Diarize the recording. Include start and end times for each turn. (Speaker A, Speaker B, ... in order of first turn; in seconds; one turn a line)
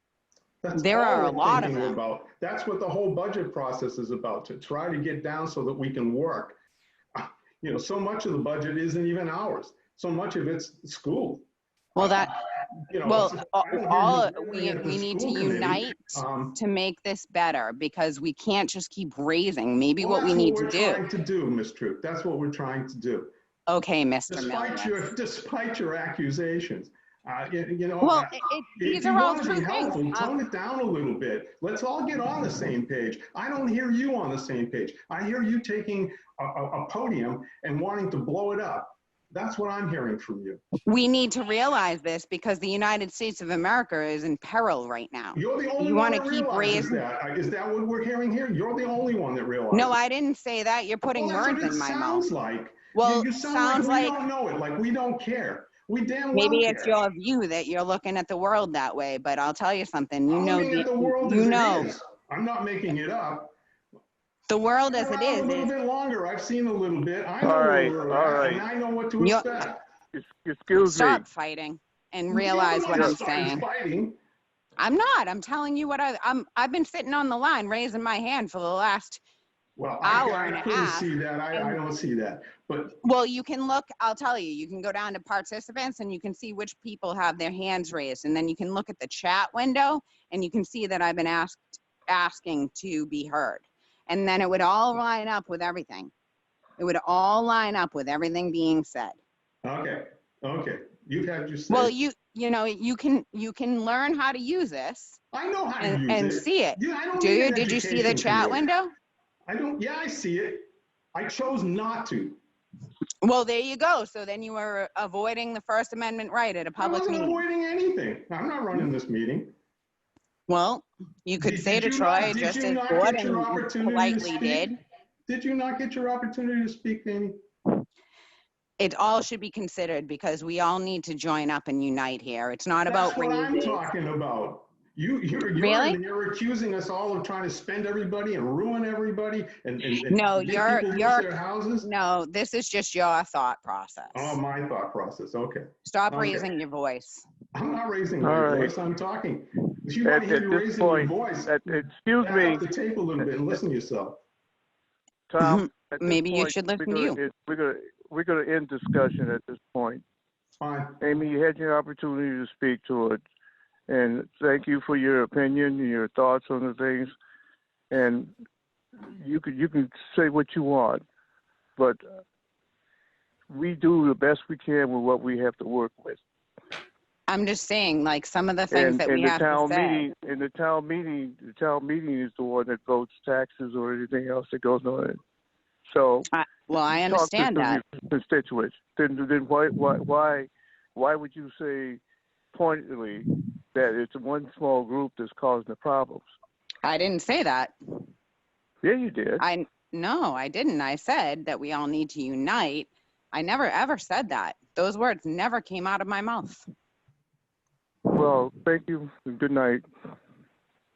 Speaker A: 0.6-6.6
Speaker B: 0.7-2.0
Speaker A: 7.1-11.4
Speaker B: 11.9-12.4
Speaker A: 12.0-12.2
Speaker A: 12.9-16.6
Speaker B: 13.0-21.0
Speaker A: 20.0-23.3
Speaker B: 23.7-25.1
Speaker A: 24.3-40.6
Speaker B: 28.0-30.3
Speaker B: 40.9-47.0
Speaker A: 45.3-49.9
Speaker B: 49.7-52.3
Speaker A: 51.1-57.0
Speaker B: 52.9-54.2
Speaker B: 56.3-61.9
Speaker A: 60.3-63.5
Speaker B: 64.5-65.7
Speaker A: 64.9-69.8
Speaker C: 67.4-68.7
Speaker B: 69.2-69.6
Speaker C: 70.1-71.2
Speaker B: 70.7-73.6
Speaker A: 72.3-74.2
Speaker B: 74.8-79.2
Speaker A: 79.8-83.0
Speaker B: 80.0-81.8
Speaker B: 83.0-96.1
Speaker B: 96.8-99.2
Speaker A: 99.6-101.9
Speaker B: 101.7-105.2
Speaker A: 105.3-108.6
Speaker B: 105.8-108.9
Speaker A: 109.5-112.4
Speaker B: 113.2-117.4
Speaker A: 116.8-119.5
Speaker B: 120.5-124.8
Speaker A: 121.4-124.7
Speaker A: 125.3-127.4
Speaker B: 128.8-133.9
Speaker A: 132.8-141.9
Speaker B: 135.6-136.0
Speaker B: 140.1-144.4
Speaker A: 144.1-146.5
Speaker B: 145.8-147.2
Speaker A: 147.5-154.2
Speaker C: 148.2-148.7
Speaker C: 150.0-152.7
Speaker C: 155.3-160.0
Speaker B: 155.4-157.2
Speaker A: 160.6-161.0
Speaker C: 161.0-163.2
Speaker C: 163.9-167.1
Speaker C: 167.9-168.3
Speaker C: 169.0-171.0
Speaker C: 173.5-176.2
Speaker B: 177.3-180.1
Speaker C: 178.7-185.2
Speaker C: 185.9-186.3
Speaker B: 186.3-187.8
Speaker C: 187.0-192.0
Speaker C: 192.5-196.3
Speaker B: 196.8-197.7
Speaker C: 198.8-199.4
Speaker B: 199.4-206.7
Speaker C: 208.1-209.8